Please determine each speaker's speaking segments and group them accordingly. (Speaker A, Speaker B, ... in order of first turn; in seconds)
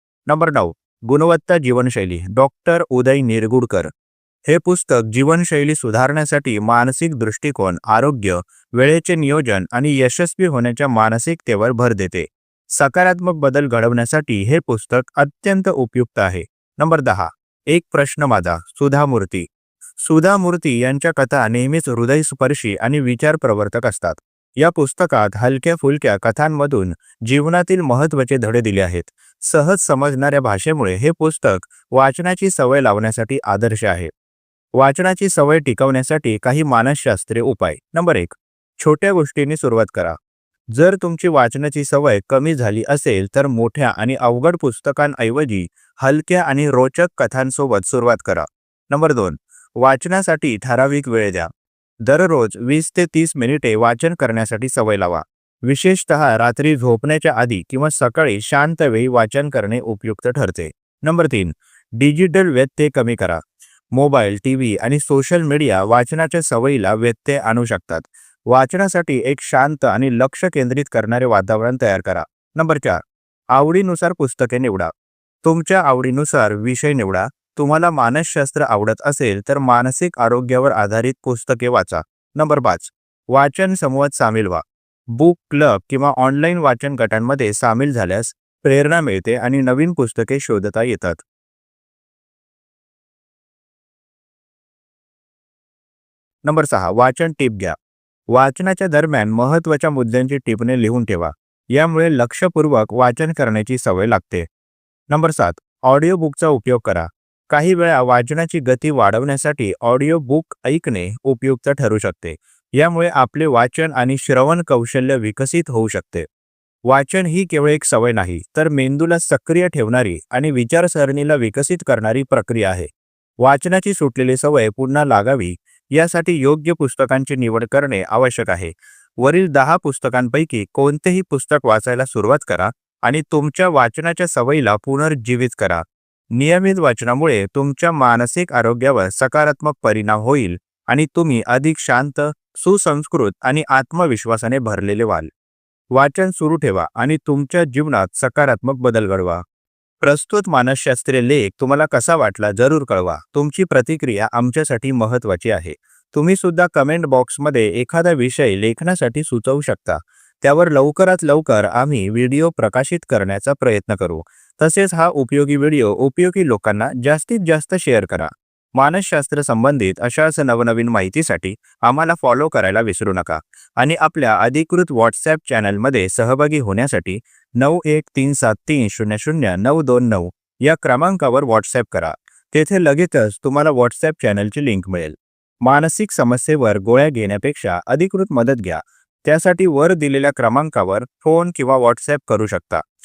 Speaker A: 0.3-3.9, 4.5-19.5, 20.0-34.1, 34.8-40.2, 40.7-51.5, 52.0-63.4, 63.9-73.0, 73.5-74.9, 75.4-91.2, 96.4-97.8, 98.3-104.5, 105.1-116.3, 116.9-122.9, 123.4-145.3, 145.9-149.4, 150.0-192.8